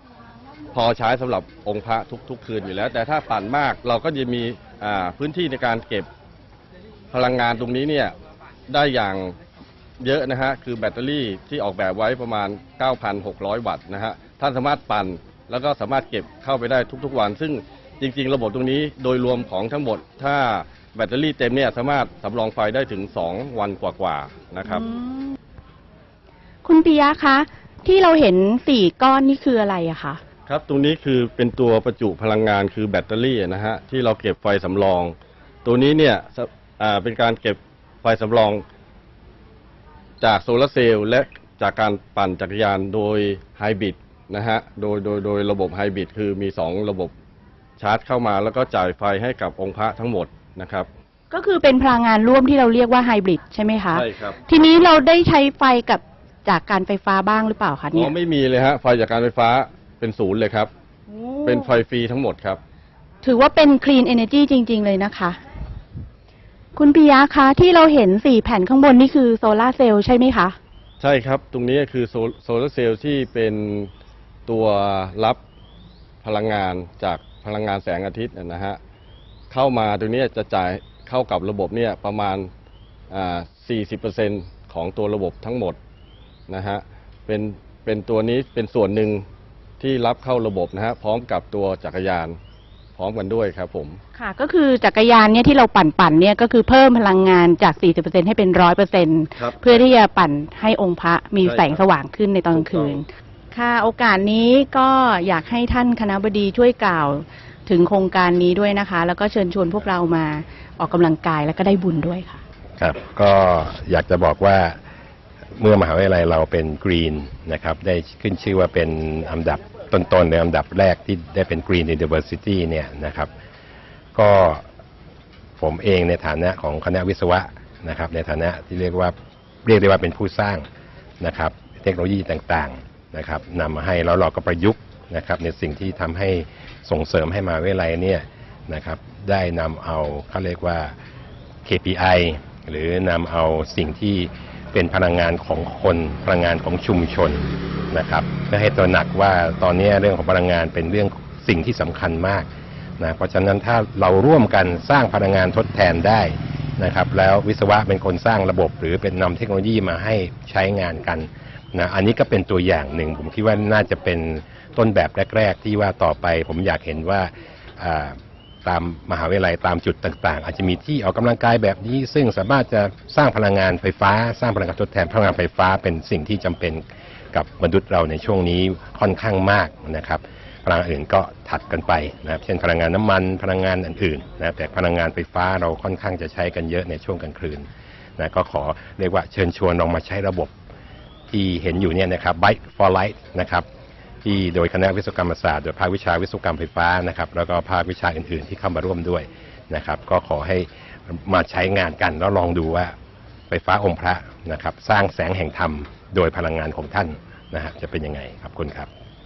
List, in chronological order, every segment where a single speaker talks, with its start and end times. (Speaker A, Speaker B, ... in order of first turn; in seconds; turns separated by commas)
Speaker A: 0.7-6.1, Speaker A: 7.1-8.1, Speaker A: 8.7-9.3, Speaker A: 10.0-24.8, Speaker B: 24.6-25.4, Speaker B: 26.6-30.2, Speaker A: 30.5-38.6, Speaker A: 40.2-47.1, Speaker A: 47.8-50.9, Speaker B: 51.3-58.1, Speaker A: 53.9-54.4, Speaker A: 57.9-60.7, Speaker B: 61.1-61.8, Speaker A: 61.4-62.6, Speaker B: 63.2-65.4, Speaker B: 66.7-70.5, Speaker A: 71.0-73.9, Speaker A: 74.5-75.4, Speaker A: 76.2-78.8, Speaker A: 79.5-82.5, Speaker A: 83.1-85.8, Speaker A: 86.5-89.2, Speaker A: 89.8-92.4, Speaker A: 93.0-94.0, Speaker B: 94.1-112.4, Speaker A: 99.3-99.8, Speaker A: 101.4-101.8, Speaker A: 102.5-103.0, Speaker C: 112.8-114.8, Speaker C: 115.6-123.3, Speaker C: 124.1-124.6, Speaker C: 125.6-130.6, Speaker C: 131.2-140.9, Speaker C: 141.6-152.5, Speaker C: 153.0-187.7, Speaker C: 188.2-190.5, Speaker C: 191.3-193.7, Speaker C: 194.2-202.9, Speaker C: 203.5-208.9